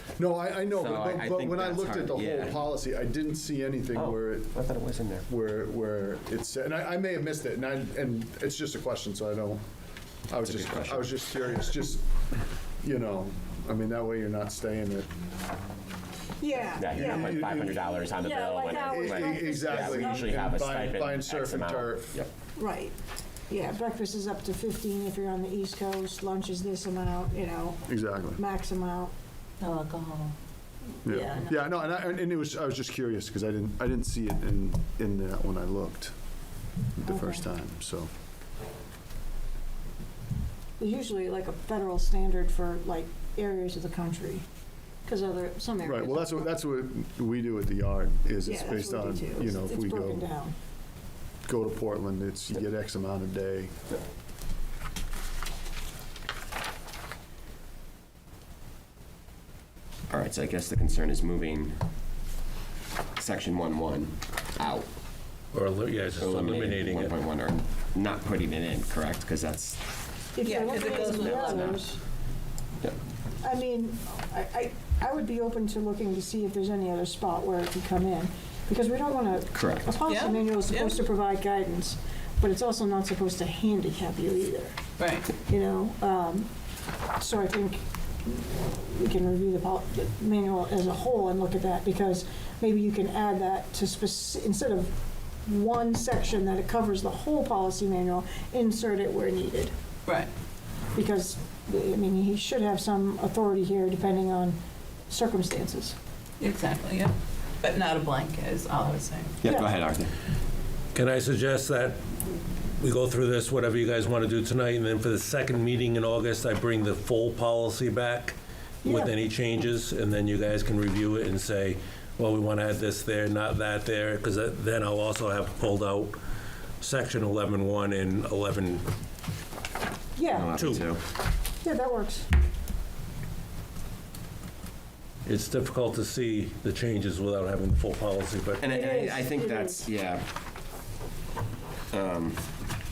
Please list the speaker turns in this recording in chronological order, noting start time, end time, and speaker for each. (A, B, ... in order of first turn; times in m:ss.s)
0:00.2-0:04.5 A
0:00.7-0:02.6 B
0:03.9-0:05.2 B
0:05.3-0:09.6 A
0:10.3-0:12.1 A
0:10.4-0:11.7 B
0:12.8-0:15.1 A
0:16.4-0:20.4 C
0:16.8-0:18.0 A
0:16.8-0:22.3 B
0:18.8-0:22.1 A
0:22.6-0:23.0 C
0:23.5-0:27.8 C
0:27.9-0:28.4 A
0:28.4-0:29.1 C
0:29.6-0:30.4 D
0:31.0-0:36.1 A
0:31.1-0:31.6 C
0:37.0-0:38.1 A
0:37.1-0:37.4 C
0:40.8-0:44.4 C
0:45.0-0:46.5 C
0:45.8-0:50.3 A
0:48.4-0:50.5 C
0:51.5-0:53.7 A
1:00.1-1:01.8 B
1:03.2-1:04.9 B
1:05.5-1:07.2 E
1:06.0-1:09.8 B
1:10.4-1:12.0 C
1:10.4-1:11.8 D
1:10.8-1:11.8 B
1:13.4-1:24.8 C
1:19.5-1:20.0 B
1:20.1-1:21.0 D
1:25.0-1:25.3 D
1:25.5-1:26.5 C
1:27.2-1:34.9 C
1:35.4-1:39.7 C
1:40.9-1:44.6 C
1:45.1-1:46.0 C
1:46.4-1:49.4 D
1:49.4-1:50.1 B
1:49.4-1:49.7 C
1:50.9-1:52.0 E
1:52.8-2:06.2 E
1:58.8-1:59.2 C
2:06.8-2:08.8 E
2:10.2-2:10.6 C
2:10.3-2:11.0 B
2:10.5-2:10.8 E
2:11.6-2:12.3 C
2:15.2-2:18.6 E
2:18.6-2:20.3 B
2:18.6-2:19.9 C
2:21.9-2:22.4 B